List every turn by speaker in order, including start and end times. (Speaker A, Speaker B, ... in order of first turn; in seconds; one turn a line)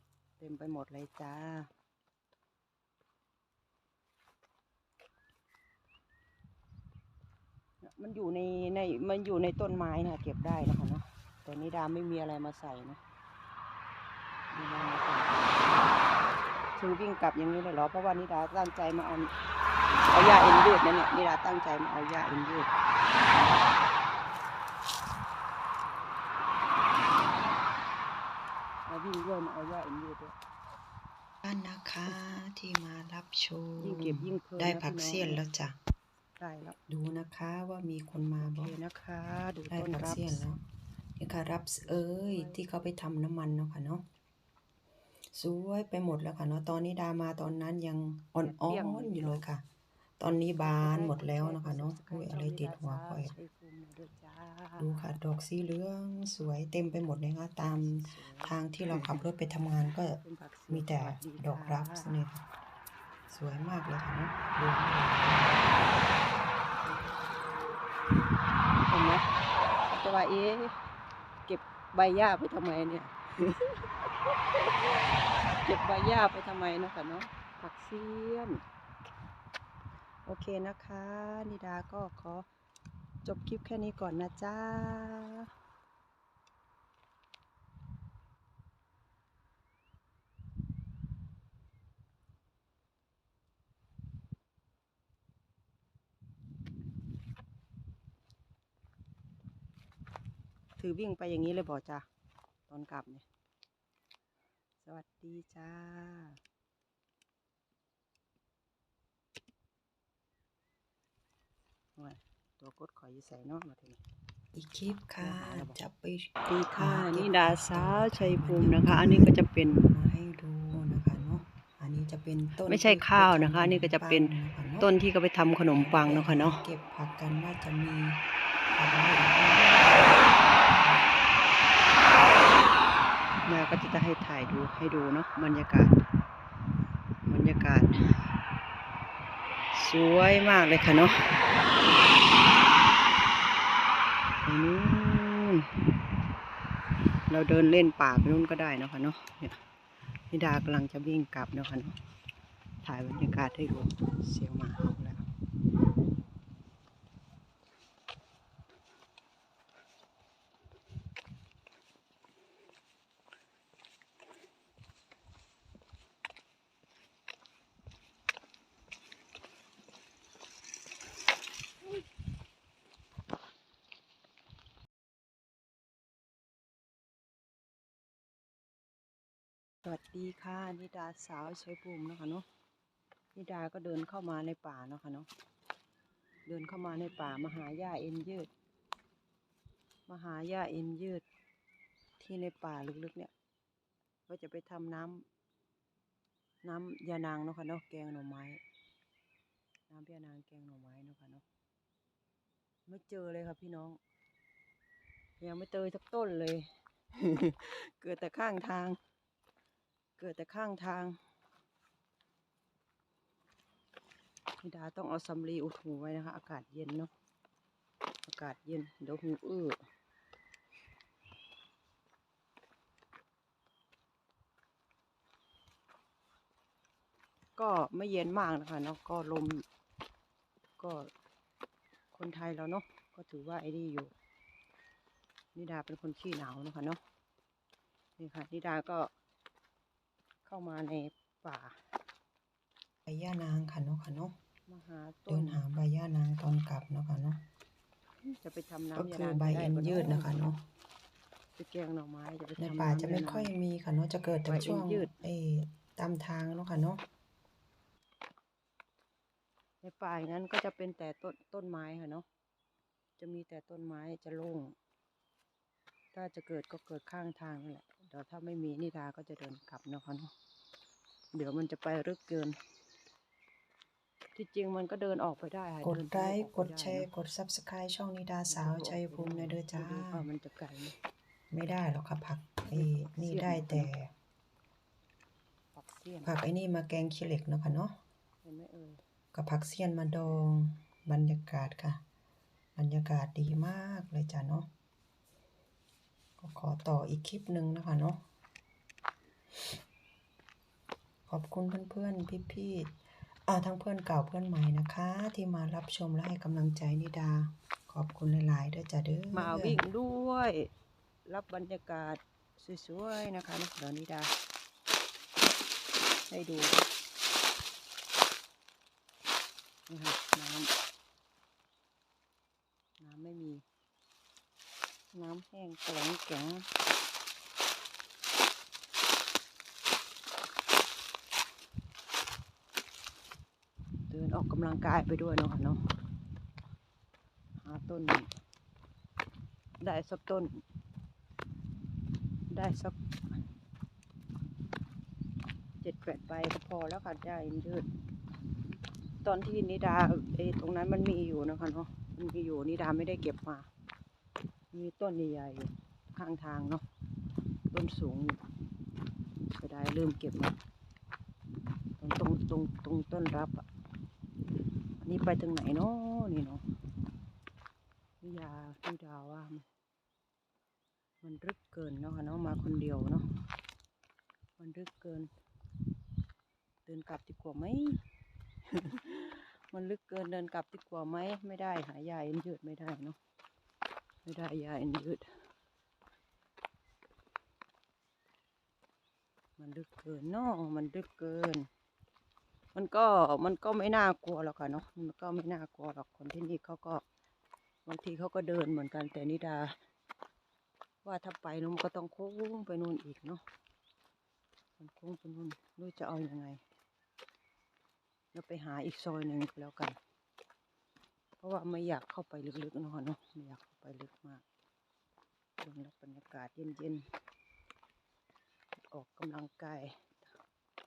Speaker A: 0.4-1.7
Speaker A: 7.8-13.0
Speaker A: 14.5-16.0
Speaker A: 16.8-19.3
Speaker A: 20.1-22.7
Speaker A: 23.3-23.6
Speaker A: 28.9-30.4
Speaker B: 31.4-35.8
Speaker A: 33.8-35.4
Speaker A: 36.4-36.8
Speaker B: 36.9-38.8
Speaker A: 38.4-40.5
Speaker B: 39.7-40.6
Speaker B: 41.2-44.0
Speaker A: 41.8-42.9
Speaker B: 45.3-49.6
Speaker A: 48.4-49.5
Speaker B: 50.2-53.3
Speaker A: 50.6-55.0
Speaker B: 54.8-62.4
Speaker A: 57.9-59.0
Speaker A: 59.8-62.1
Speaker B: 63.3-65.6
Speaker A: 68.9-69.2
Speaker A: 69.9-70.8
Speaker A: 71.5-73.8
Speaker A: 75.6-78.6
Speaker A: 80.2-82.5
Speaker A: 83.2-85.5
Speaker A: 100.8-102.0
Speaker A: 102.7-103.2
Speaker A: 104.8-106.4
Speaker A: 112.0-114.0
Speaker B: 114.5-119.4
Speaker A: 115.2-115.8
Speaker A: 116.5-119.9
Speaker B: 119.9-124.9
Speaker A: 122.7-126.6
Speaker B: 125.7-128.2
Speaker B: 128.7-131.1
Speaker A: 133.4-136.0
Speaker A: 137.3-138.2
Speaker A: 139.7-141.3
Speaker A: 144.4-145.7
Speaker A: 147.3-149.6
Speaker A: 150.3-152.0
Speaker A: 152.8-155.2
Speaker A: 179.8-182.4
Speaker A: 183.3-185.3
Speaker A: 186.5-188.5
Speaker A: 190.1-191.2
Speaker A: 192.2-193.3
Speaker A: 194.3-195.2
Speaker A: 196.6-198.6
Speaker A: 199.9-201.4
Speaker A: 202.9-204.0
Speaker A: 205.4-209.0
Speaker A: 210.2-211.2
Speaker A: 214.6-217.1
Speaker A: 218.2-219.8
Speaker A: 227.6-229.6
Speaker A: 230.8-231.1
Speaker A: 232.1-234.1
Speaker A: 235.6-237.0
Speaker A: 238.2-239.1
Speaker A: 240.4-241.8
Speaker B: 243.1-244.3
Speaker A: 244.7-245.6
Speaker B: 245.3-247.4
Speaker A: 248.3-250.5
Speaker B: 248.9-250.6
Speaker A: 251.6-253.5
Speaker B: 252.6-257.0
Speaker A: 254.5-255.1
Speaker A: 259.8-262.2
Speaker A: 263.2-264.8
Speaker A: 266.1-270.3
Speaker A: 271.3-272.6
Speaker A: 274.4-277.1
Speaker B: 275.8-280.2
Speaker A: 278.5-280.9
Speaker B: 281.5-284.1
Speaker A: 282.7-283.9
Speaker A: 285.7-286.4
Speaker B: 286.2-288.0
Speaker A: 288.4-289.0
Speaker B: 289.3-292.0
Speaker B: 292.8-294.7
Speaker B: 296.4-298.2
Speaker B: 301.3-302.9
Speaker B: 303.5-309.8
Speaker A: 309.3-310.7
Speaker A: 311.2-314.3
Speaker A: 316.3-316.8
Speaker A: 319.9-320.7
Speaker A: 323.0-323.6
Speaker A: 325.1-326.7
Speaker A: 334.1-335.8
Speaker A: 337.6-338.3
Speaker A: 339.8-340.6
Speaker A: 342.5-343.0
Speaker A: 345.8-347.9
Speaker A: 349.2-353.7
Speaker A: 354.7-356.8
Speaker A: 357.7-358.4
Speaker A: 359.5-360.6
Speaker A: 362.0-363.6
Speaker A: 365.0-366.6
Speaker A: 368.2-369.6
Speaker A: 371.2-373.2
Speaker A: 374.6-375.3
Speaker A: 376.9-378.0
Speaker A: 378.8-383.2
Speaker A: 384.2-385.3
Speaker A: 389.6-391.7
Speaker A: 392.7-397.0
Speaker A: 397.9-399.7
Speaker A: 401.0-403.4
Speaker A: 404.8-406.6
Speaker A: 408.3-410.0
Speaker A: 411.4-414.4
Speaker A: 415.6-417.0
Speaker A: 418.9-420.2